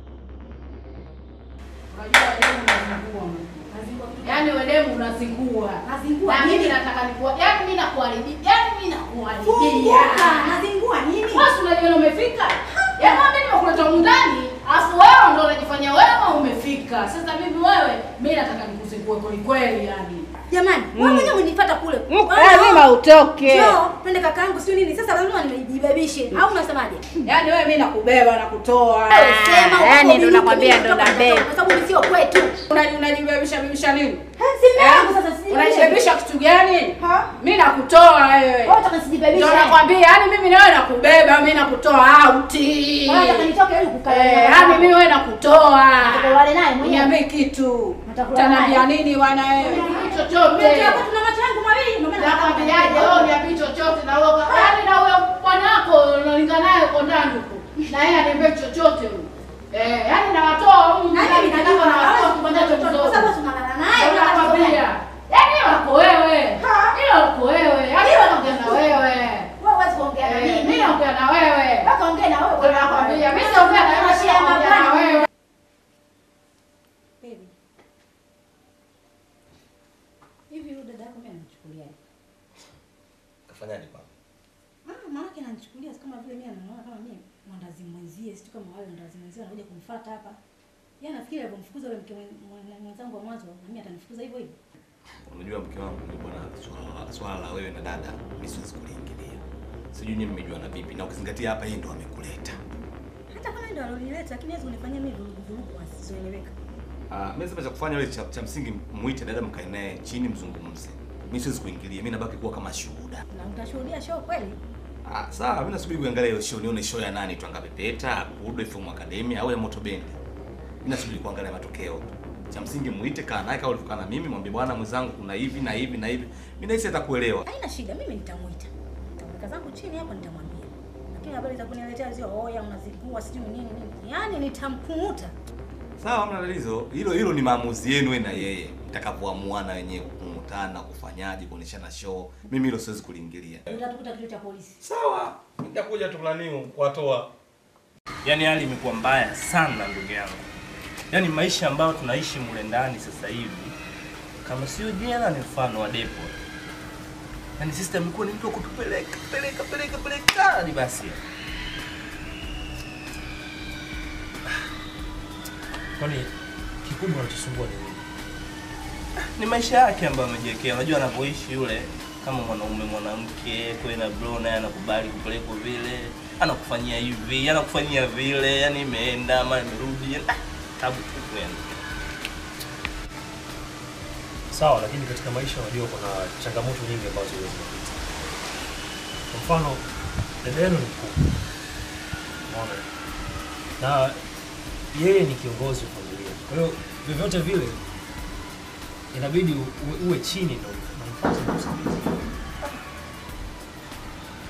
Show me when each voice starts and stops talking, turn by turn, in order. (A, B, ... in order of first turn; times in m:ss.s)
0:01.9-0:03.7 A
0:03.7-0:04.5 B
0:04.2-0:10.6 A
0:05.8-0:06.8 B
0:09.4-0:11.5 B
0:11.3-0:20.3 A
0:12.7-0:13.2 B
0:20.5-0:22.9 B
0:20.9-0:21.4 A
0:22.1-0:23.8 A
0:23.4-0:27.2 B
0:27.2-0:31.5 A
0:29.1-0:32.6 B
0:32.7-0:34.2 A
0:34.4-0:36.0 B
0:34.8-0:38.8 A
0:37.0-0:37.3 B
0:38.6-0:39.8 B
0:39.3-0:43.5 A
0:43.0-0:44.9 B
0:44.0-0:51.0 A
0:46.0-0:47.1 B
0:48.0-0:48.9 B
0:49.6-0:53.3 B
0:52.1-1:03.3 A
0:54.5-0:54.7 B
1:01.1-1:04.8 B
1:03.9-1:09.5 A
1:06.6-1:07.0 B
1:08.0-1:08.9 B
1:09.6-1:11.0 B
1:10.2-1:11.9 A
1:11.8-1:15.2 B
1:12.5-1:15.3 A
1:17.2-1:17.5 B
1:20.5-1:22.0 B
1:23.5-1:24.1 C
1:24.8-1:30.4 B
1:31.0-1:34.6 B
1:35.2-1:39.4 C
1:39.9-1:42.6 C
1:43.3-1:46.5 B
1:47.1-1:53.2 C
1:53.3-1:54.6 B
1:55.0-2:00.2 C
2:00.8-2:07.4 C
2:07.4-2:15.3 B
2:16.0-2:23.6 C
2:23.7-2:24.8 B
2:24.8-2:27.3 C
2:28.2-2:30.4 D
2:31.1-2:33.7 D
2:34.4-2:36.4 D
2:37.6-2:41.2 D
2:46.0-2:46.3 E
2:46.8-2:48.0 E
2:49.4-3:01.8 D
3:04.5-3:08.0 E
3:09.3-3:09.8 E
3:10.4-3:11.2 E
3:12.4-3:12.8 E
3:13.8-3:14.2 E
3:14.9-3:17.8 E
3:19.1-3:22.1 E